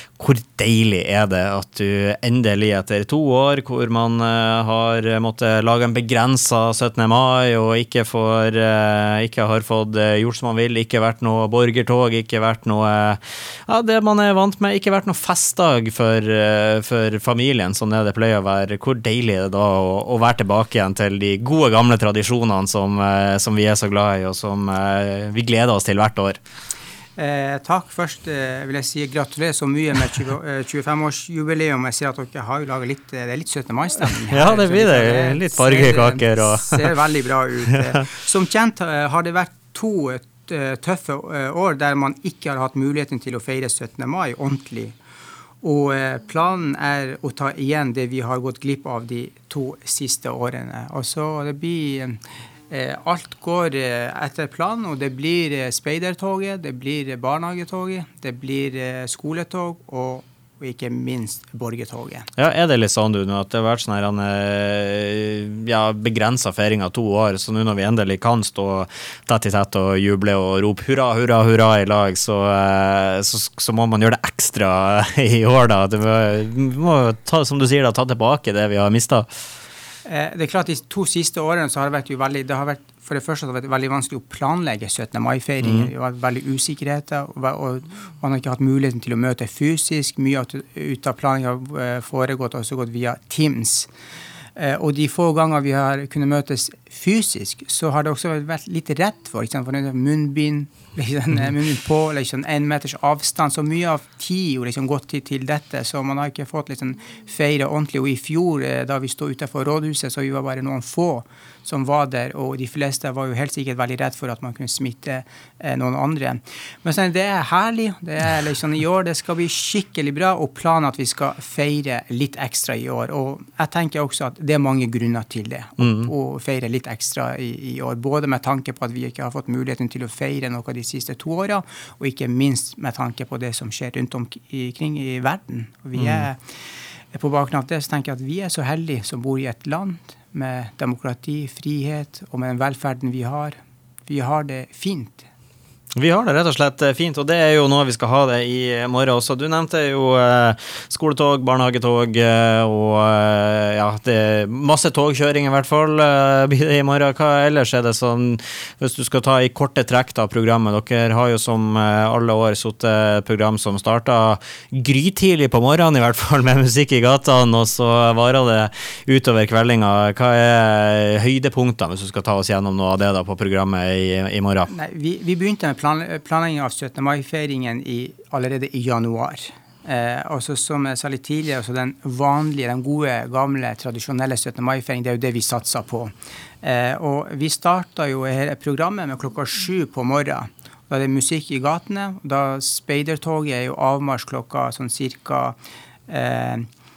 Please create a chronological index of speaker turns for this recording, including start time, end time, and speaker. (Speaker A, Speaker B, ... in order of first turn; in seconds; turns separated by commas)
Speaker A: 0.2-26.4, Speaker B: 27.1-45.0, Speaker A: 34.2-36.9, Speaker B: 45.6-62.3, Speaker A: 62.4-79.3, Speaker B: 80.0-93.9, Speaker A: 85.6-85.9, Speaker B: 94.5-136.4, Speaker A: 125.8-126.1, Speaker A: 135.9-136.2, Speaker B: 137.1-143.6, Speaker B: 144.1-145.2, Speaker A: 145.9-174.7, Speaker B: 174.7-195.6, Speaker B: 196.1-196.7